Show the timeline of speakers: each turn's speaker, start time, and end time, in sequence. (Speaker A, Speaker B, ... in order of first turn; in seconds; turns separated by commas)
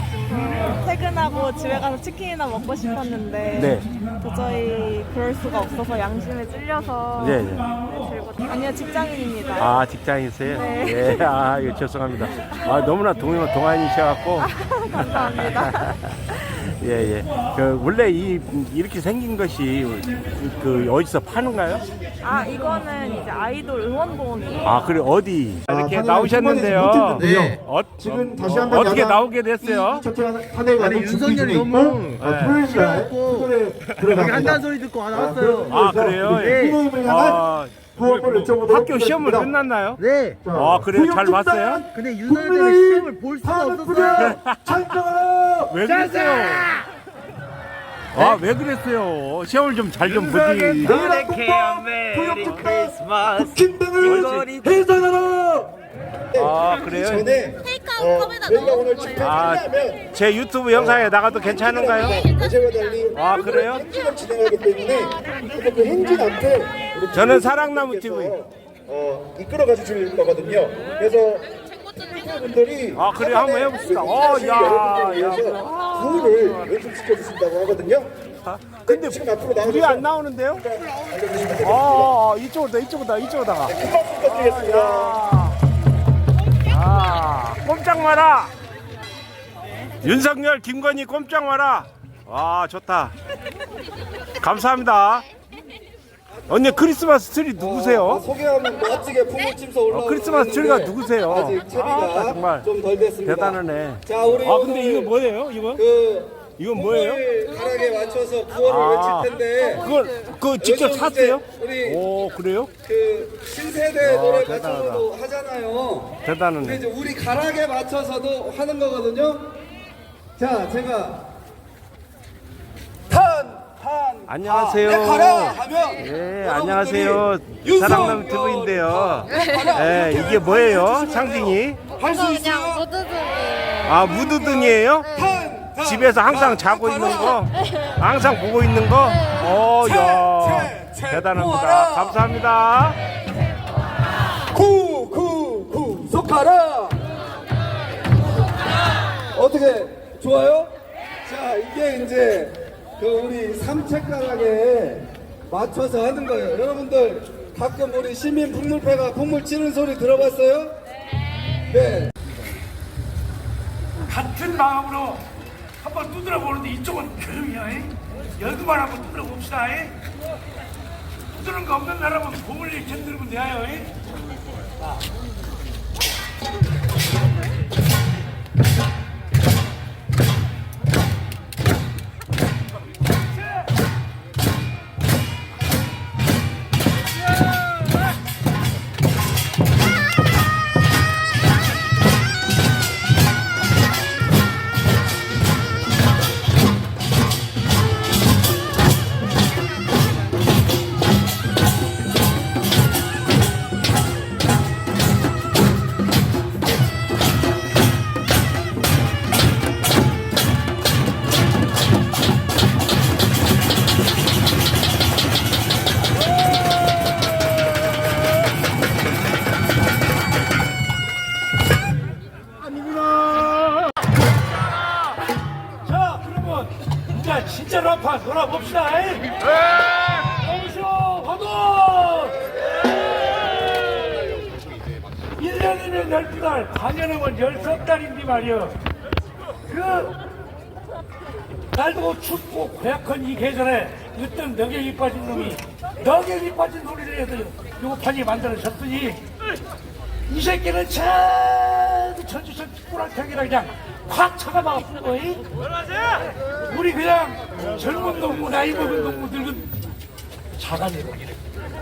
Speaker A: 0.2-9.8, Speaker B: 3.5-3.9, Speaker B: 7.2-7.7, Speaker B: 9.6-14.5, Speaker A: 10.5-11.3, Speaker A: 14.4-16.0, Speaker B: 15.2-16.0, Speaker B: 16.6-21.8, Speaker A: 22.2-25.0, Speaker B: 24.6-30.1, Speaker C: 25.7-37.4, Speaker D: 27.2-27.6, Speaker D: 30.8-36.8, Speaker B: 32.2-32.6, Speaker B: 35.7-37.9, Speaker C: 38.0-39.5, Speaker D: 38.0-38.5, Speaker B: 38.6-40.0, Speaker D: 40.0-40.4, Speaker C: 40.4-45.8, Speaker B: 40.5-41.8, Speaker D: 41.9-44.4, Speaker B: 44.1-44.7, Speaker B: 45.7-46.7, Speaker D: 45.8-46.9, Speaker B: 48.1-51.0, Speaker D: 50.1-54.9, Speaker C: 50.8-55.7, Speaker B: 54.0-54.5, Speaker C: 56.3-60.1, Speaker B: 56.4-57.3, Speaker B: 59.2-62.2, Speaker C: 60.7-71.4, Speaker B: 63.1-63.8, Speaker B: 67.1-68.4, Speaker C: 72.0-78.1, Speaker B: 73.0-76.7, Speaker B: 78.5-80.7, Speaker C: 78.9-82.1, Speaker B: 81.6-85.6, Speaker C: 83.7-85.2, Speaker B: 86.7-88.5, Speaker B: 90.0-93.1, Speaker B: 94.4-95.3, Speaker E: 96.3-96.9, Speaker B: 96.5-98.2, Speaker E: 97.5-105.1, Speaker B: 99.9-102.7, Speaker B: 103.2-105.8, Speaker E: 105.8-109.9, Speaker B: 106.6-107.2, Speaker B: 108.6-112.7, Speaker E: 110.6-112.0, Speaker E: 112.8-119.5, Speaker B: 114.0-115.1, Speaker B: 116.2-116.8, Speaker E: 120.4-121.3, Speaker E: 123.1-133.0, Speaker B: 124.3-131.8, Speaker A: 133.1-133.7, Speaker B: 133.8-135.1, Speaker E: 134.1-137.4, Speaker B: 135.8-143.0, Speaker E: 139.8-142.2, Speaker E: 144.5-147.0, Speaker E: 149.3-150.7, Speaker E: 151.2-160.8, Speaker E: 161.7-162.1, Speaker F: 164.1-165.3, Speaker F: 165.8-170.0, Speaker F: 171.3-173.9, Speaker F: 225.8-229.3, Speaker F: 230.1-232.5, Speaker F: 233.7-234.3, Speaker F: 235.4-238.8, Speaker F: 239.7-240.2, Speaker F: 241.7-249.2, Speaker F: 250.3-255.5, Speaker F: 256.6-259.7, Speaker F: 260.6-261.3